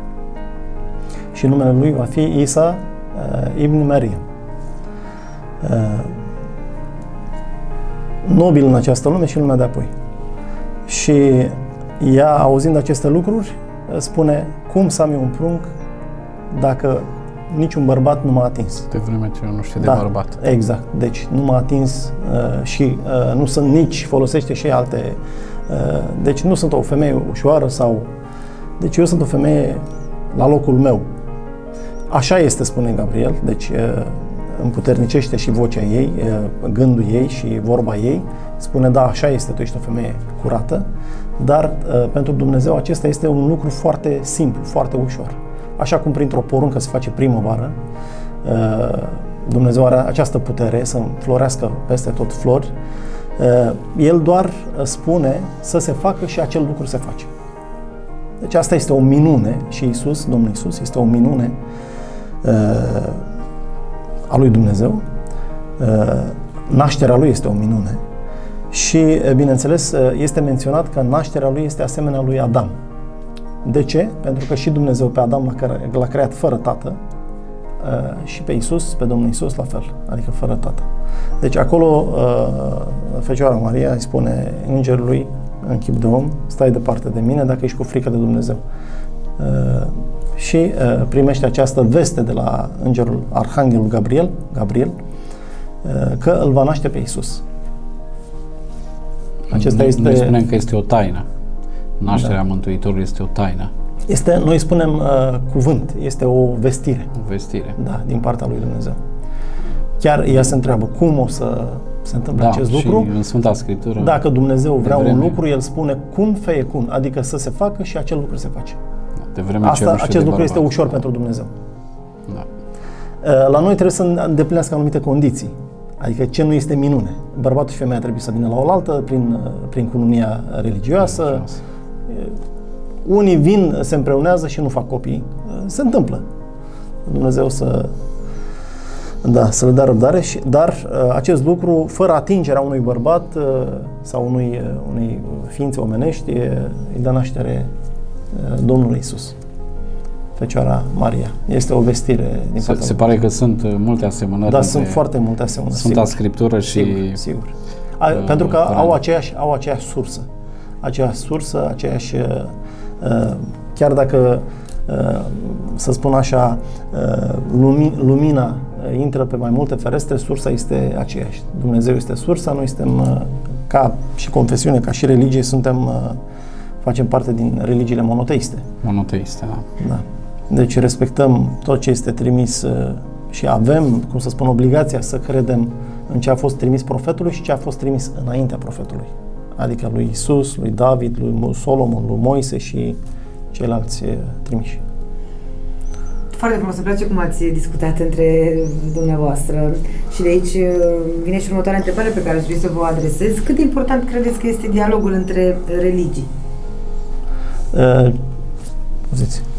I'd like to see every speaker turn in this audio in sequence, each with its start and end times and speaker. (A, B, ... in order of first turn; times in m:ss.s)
0:01.3-0:04.2 A
0:05.6-0:06.2 A
0:08.2-0:09.9 A
0:10.9-0:15.7 A
0:16.5-0:18.9 A
0:18.9-0:20.3 B
0:19.8-0:28.1 A
0:28.8-0:31.1 A
0:32.1-0:40.9 A
0:41.4-0:47.8 A
0:48.4-0:52.7 A
0:53.4-0:57.3 A
0:58.4-1:01.6 A
1:02.4-1:03.2 A
1:04.3-1:05.0 A
1:05.8-1:08.0 A
1:08.7-1:12.7 A
1:13.6-1:17.0 A
1:17.8-1:20.9 A
1:21.4-1:28.6 A
1:29.4-1:35.0 A
1:35.8-1:37.4 A
1:39.5-1:41.2 B
1:39.5-1:40.4 A
1:42.0-1:43.7 B
1:44.1-1:47.1 A
1:47.2-1:47.8 B
1:47.8-1:49.0 A
1:50.0-1:53.1 A
1:52.4-1:54.2 B
1:54.0-1:58.8 A
1:54.8-1:55.4 B
1:59.3-2:01.0 B
1:59.6-2:01.5 A
2:03.2-2:11.5 A
2:11.3-2:11.5 B
2:12.1-2:12.4 A
2:13.0-2:16.2 A
2:17.1-2:18.0 A
2:19.2-2:27.7 A
2:28.3-2:29.4 A
2:30.4-2:33.1 A
2:32.6-2:35.0 B
2:34.5-2:36.2 A
2:35.7-2:37.2 B
2:36.7-2:40.3 A
2:38.2-2:39.0 B
2:40.8-2:56.2 A
2:56.8-2:58.7 A
2:58.8-2:59.7 B
2:59.8-3:13.0 A
3:13.5-3:14.8 A
3:16.3-3:26.3 C
3:27.7-3:28.2 A
3:29.1-3:29.4 A